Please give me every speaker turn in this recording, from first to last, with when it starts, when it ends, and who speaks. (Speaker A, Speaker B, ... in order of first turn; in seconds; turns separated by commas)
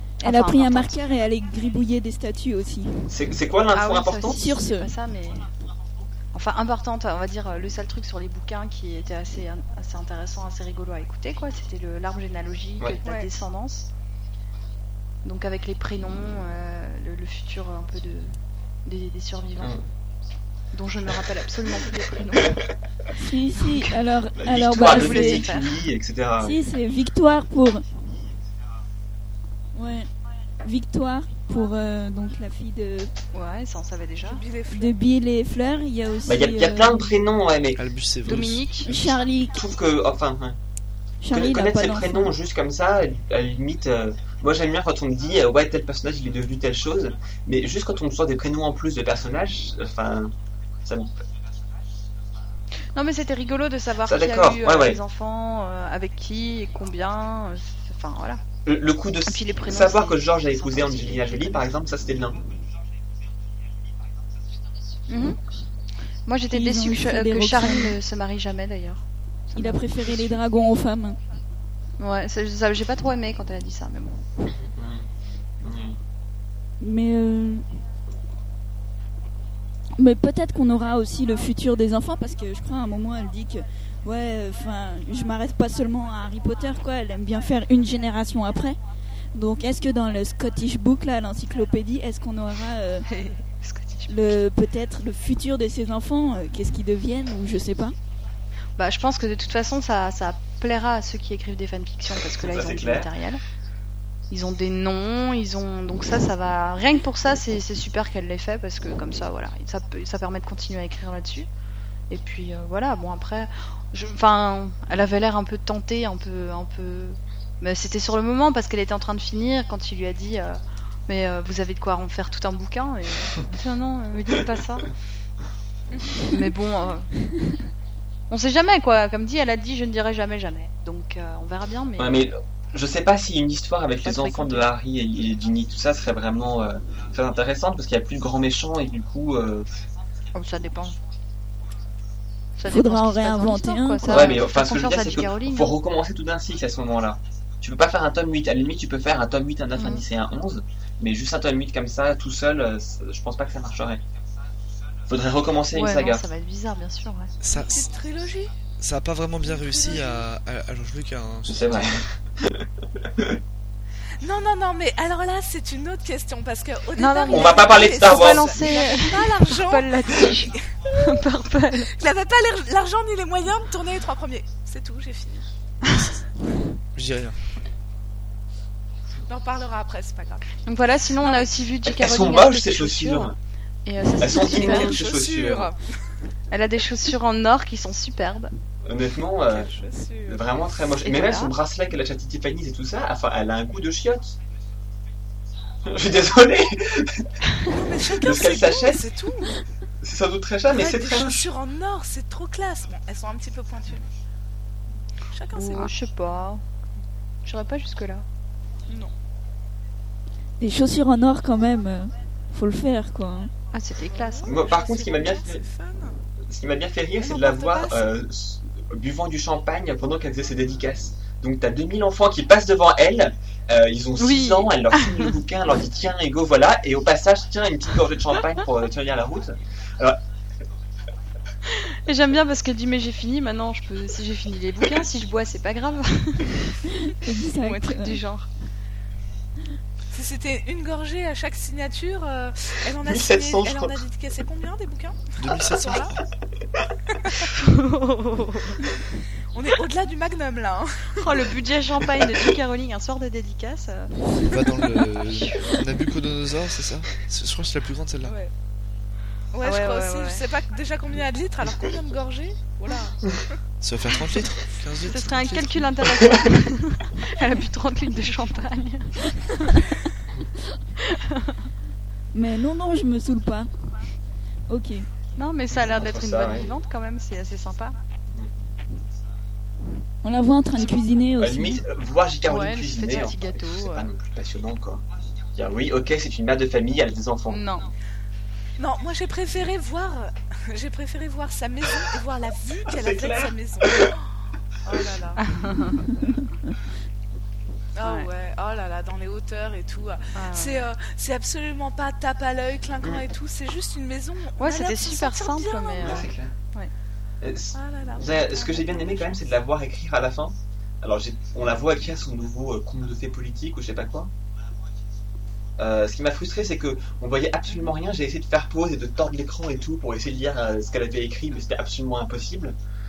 Speaker A: 0.2-0.9, Speaker B: 0.2-3.1, Speaker C: 3.1-4.5, Speaker A: 3.7-5.5, Speaker B: 4.3-4.9, Speaker A: 6.3-13.9, Speaker A: 15.2-19.7, Speaker C: 19.6-19.8, Speaker A: 20.7-22.6, Speaker B: 23.1-25.5, Speaker A: 23.6-23.9, Speaker C: 24.4-26.6, Speaker A: 24.8-25.7, Speaker B: 26.4-27.8, Speaker B: 29.7-30.1, Speaker B: 30.6-33.1, Speaker A: 33.3-34.4, Speaker D: 34.2-34.9, Speaker B: 34.7-37.1, Speaker C: 36.2-37.8, Speaker E: 37.8-39.1, Speaker A: 38.2-38.9, Speaker B: 38.8-39.6, Speaker C: 39.5-40.6, Speaker B: 41.2-42.3, Speaker C: 41.3-51.1, Speaker A: 52.9-58.4, Speaker C: 54.0-55.0, Speaker C: 58.6-62.4, Speaker A: 59.2-61.6, Speaker A: 65.1-65.4, Speaker A: 66.2-69.0, Speaker B: 66.5-68.0, Speaker A: 69.5-70.4, Speaker B: 69.5-71.2, Speaker A: 72.0-74.2, Speaker C: 74.5-75.0, Speaker C: 75.6-76.0, Speaker B: 76.8-77.6, Speaker B: 80.0-88.8, Speaker B: 89.3-93.1, Speaker A: 93.1-94.1, Speaker B: 94.1-97.9, Speaker A: 98.8-103.4, Speaker C: 102.4-103.1, Speaker A: 104.3-111.5, Speaker A: 112.1-124.9, Speaker A: 126.3-127.1, Speaker A: 128.3-132.2, Speaker C: 132.0-139.7, Speaker A: 134.0-134.7, Speaker A: 140.3-141.0, Speaker A: 142.6-145.7, Speaker B: 142.7-144.3, Speaker C: 144.1-154.0, Speaker A: 149.8-150.0, Speaker C: 155.1-156.2, Speaker A: 155.7-157.3, Speaker E: 157.4-157.9, Speaker D: 157.5-158.5, Speaker E: 158.8-162.0, Speaker D: 159.4-160.2, Speaker C: 161.5-163.4, Speaker D: 164.2-170.7, Speaker A: 167.0-171.9, Speaker C: 167.3-168.6, Speaker D: 171.9-175.5, Speaker E: 175.8-176.2, Speaker E: 176.9-177.4, Speaker D: 179.3-180.6, Speaker A: 180.6-184.9, Speaker D: 181.2-181.6, Speaker C: 181.8-183.3, Speaker C: 184.2-185.7, Speaker D: 184.2-185.8, Speaker A: 186.5-188.5, Speaker C: 188.8-189.7, Speaker D: 189.5-190.4, Speaker C: 190.2-194.4, Speaker A: 191.0-191.5, Speaker C: 195.8-197.3, Speaker D: 197.7-199.6, Speaker C: 198.1-199.0, Speaker C: 200.0-201.4, Speaker D: 200.7-204.1, Speaker D: 205.3-205.9, Speaker A: 205.5-206.6, Speaker A: 207.4-208.2, Speaker D: 208.9-209.1, Speaker B: 210.6-213.5, Speaker A: 213.7-214.6, Speaker D: 214.1-216.2, Speaker C: 214.4-215.6, Speaker C: 216.5-230.2, Speaker D: 217.2-218.0, Speaker A: 224.2-225.3, Speaker A: 231.7-236.8, Speaker B: 237.0-238.2, Speaker A: 237.6-238.5, Speaker D: 240.1-246.1, Speaker C: 243.0-244.0, Speaker E: 245.4-246.2, Speaker A: 247.5-248.8, Speaker D: 249.5-251.4, Speaker A: 251.2-255.8, Speaker E: 254.5-258.4, Speaker D: 258.2-258.5, Speaker D: 259.5-263.6, Speaker A: 259.6-260.4, Speaker E: 263.8-266.1, Speaker A: 265.0-269.9, Speaker A: 271.0-271.6, Speaker B: 272.3-273.7, Speaker B: 274.7-275.1, Speaker A: 275.4-278.0, Speaker C: 275.7-276.8, Speaker B: 280.2-281.8, Speaker C: 281.4-285.0, Speaker A: 282.4-284.1, Speaker C: 285.5-287.6, Speaker A: 287.5-287.9, Speaker D: 288.8-294.2, Speaker C: 292.9-294.1, Speaker D: 294.8-295.4, Speaker A: 295.4-296.1, Speaker D: 297.9-306.2, Speaker A: 298.0-298.3, Speaker A: 300.4-300.9, Speaker A: 304.6-306.9, Speaker C: 306.0-306.5, Speaker C: 307.4-314.3, Speaker D: 307.7-309.5, Speaker C: 315.8-322.8